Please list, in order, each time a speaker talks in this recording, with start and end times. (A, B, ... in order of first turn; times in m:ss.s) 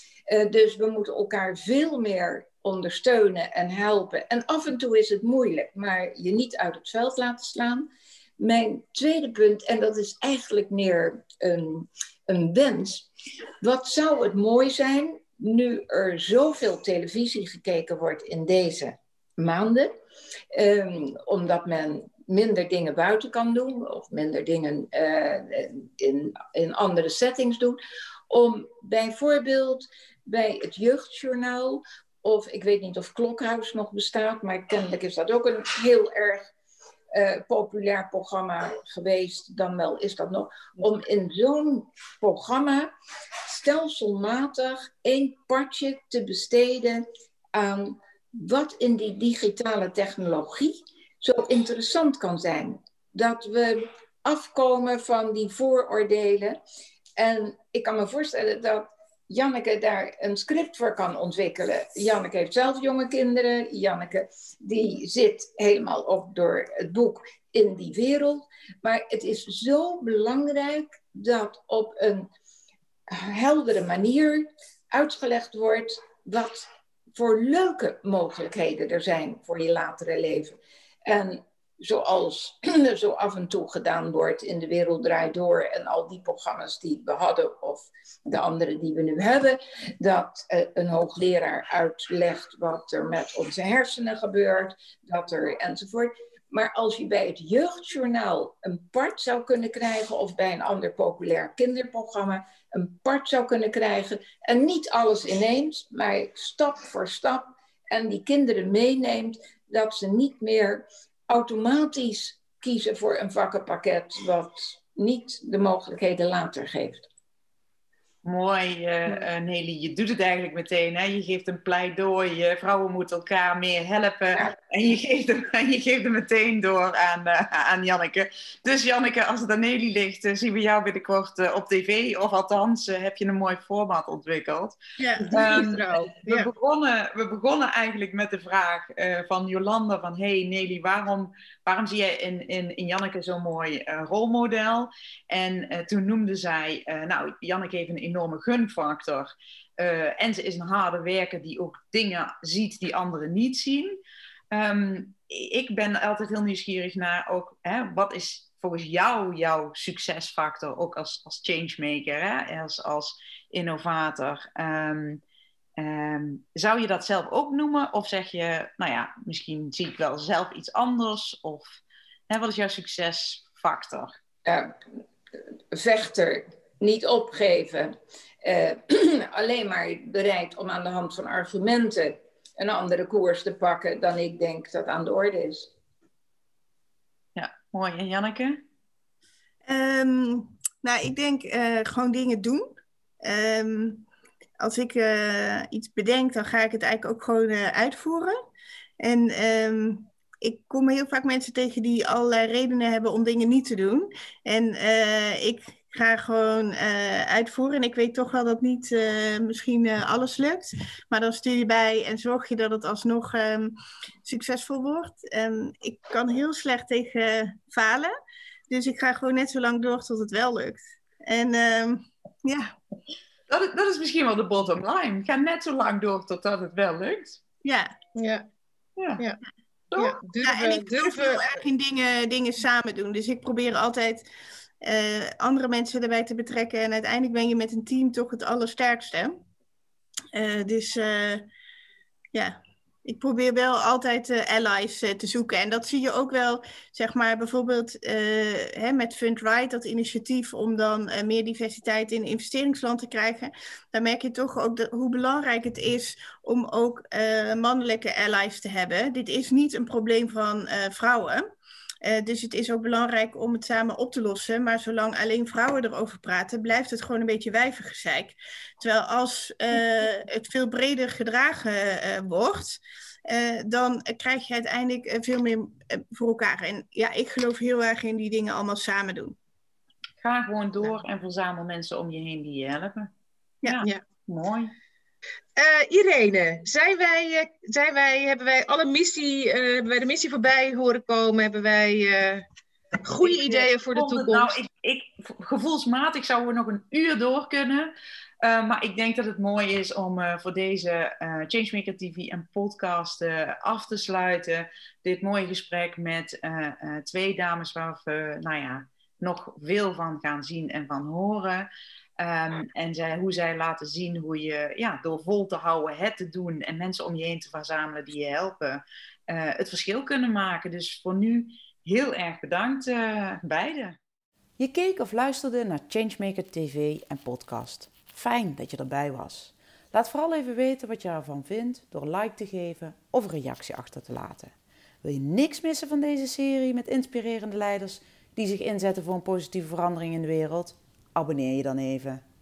0:00.3-0:07.9 A
0:08.4-0:13.1 A
0:13.6-0:19.9 A
0:20.5-0:36.5 A
0:37.1-0:42.9 A
0:43.5-0:56.6 A
0:57.2-1:12.3 A
1:13.1-1:20.6 A
1:21.1-1:57.1 A
1:58.2-2:14.8 B
2:15.0-2:15.3 C
2:15.2-2:16.5 D
2:15.3-2:34.0 B
2:34.5-2:45.2 B
2:45.8-2:54.1 B
2:54.4-2:54.8 A
2:55.7-3:05.7 A
3:07.4-3:08.6 B
3:09.7-3:12.7 C
3:13.2-3:14.1 C
3:14.6-3:18.4 C
3:19.0-3:33.7 C
3:34.2-3:38.1 C
3:38.7-3:42.7 C
3:43.5-3:47.4 B
3:47.6-3:47.9 C
3:48.2-3:48.5 D
3:49.0-3:49.2 B
3:50.0-3:51.5 D
3:50.4-3:54.2 C
3:54.8-3:59.4 C
4:00.3-4:01.4 C
4:02.3-4:21.4 C
4:22.0-4:39.4 C
4:40.2-4:43.1 B
4:43.7-4:44.7 B
4:45.6-4:52.4 D
4:53.0-4:54.6 D
4:53.9-5:11.7 B
5:12.2-5:24.0 B
5:24.6-5:42.2 B